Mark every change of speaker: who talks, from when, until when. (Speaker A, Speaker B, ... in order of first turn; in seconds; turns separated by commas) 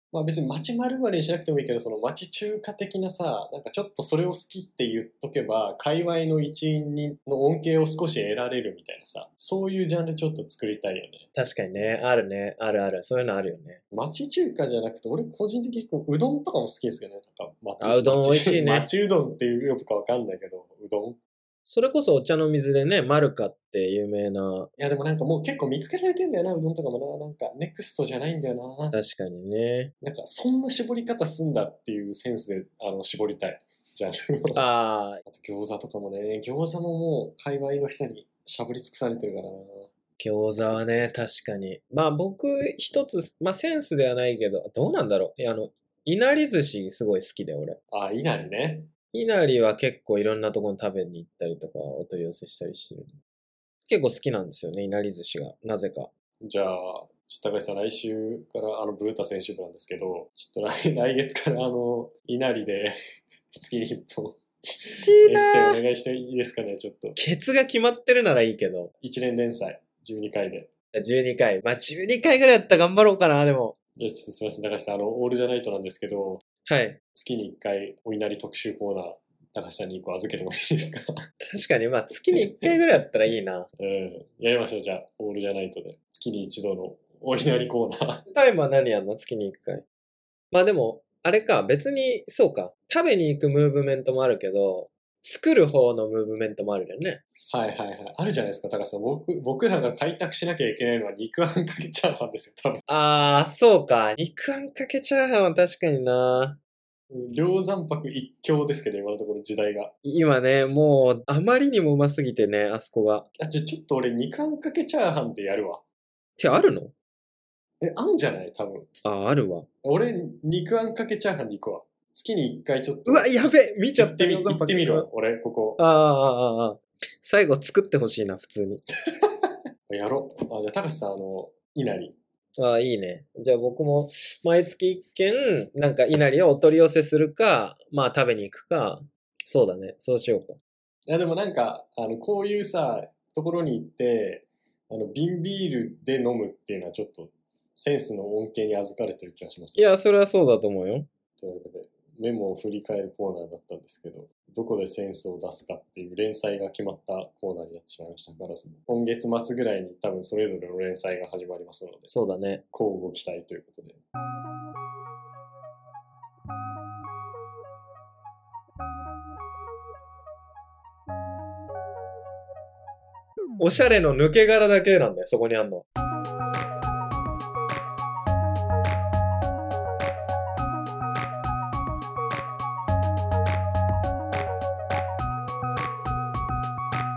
Speaker A: 0.1-11.3, Speaker B: 11.3-13.8, Speaker A: 13.9-21.2, Speaker B: 17.8-18.9, Speaker B: 21.6-24.7, Speaker A: 24.8-29.0, Speaker B: 28.9-29.9, Speaker A: 30.0-34.6, Speaker B: 34.5-35.2, Speaker A: 35.2-39.9, Speaker B: 40.2-47.8, Speaker A: 47.9-48.9, Speaker B: 49.1-53.1, Speaker B: 53.9-56.1, Speaker A: 56.4-62.9, Speaker A: 63.5-67.2, Speaker B: 64.9-65.8, Speaker B: 67.2-68.9, Speaker A: 69.0-70.7, Speaker B: 70.9-73.8, Speaker A: 74.0-76.4, Speaker B: 76.7-77.0, Speaker A: 77.1-81.0, Speaker B: 81.4-83.7, Speaker A: 82.3-82.8, Speaker A: 83.8-88.2, Speaker B: 88.3-89.8, Speaker B: 90.5-97.2, Speaker A: 97.5-102.8, Speaker B: 102.9-106.6, Speaker A: 107.1-109.9, Speaker B: 110.0-113.3, Speaker A: 113.4-115.8, Speaker B: 116.4-116.9, Speaker A: 117.8-118.9, Speaker B: 119.0-119.7, Speaker A: 119.8-125.8, Speaker B: 123.0-125.1, Speaker B: 125.8-128.8, Speaker A: 129.1-132.2, Speaker B: 132.6-140.6, Speaker A: 141.1-149.8, Speaker B: 149.8-151.1, Speaker A: 151.4-162.1, Speaker B: 162.1-162.6, Speaker A: 162.7-164.0, Speaker B: 173.6-175.8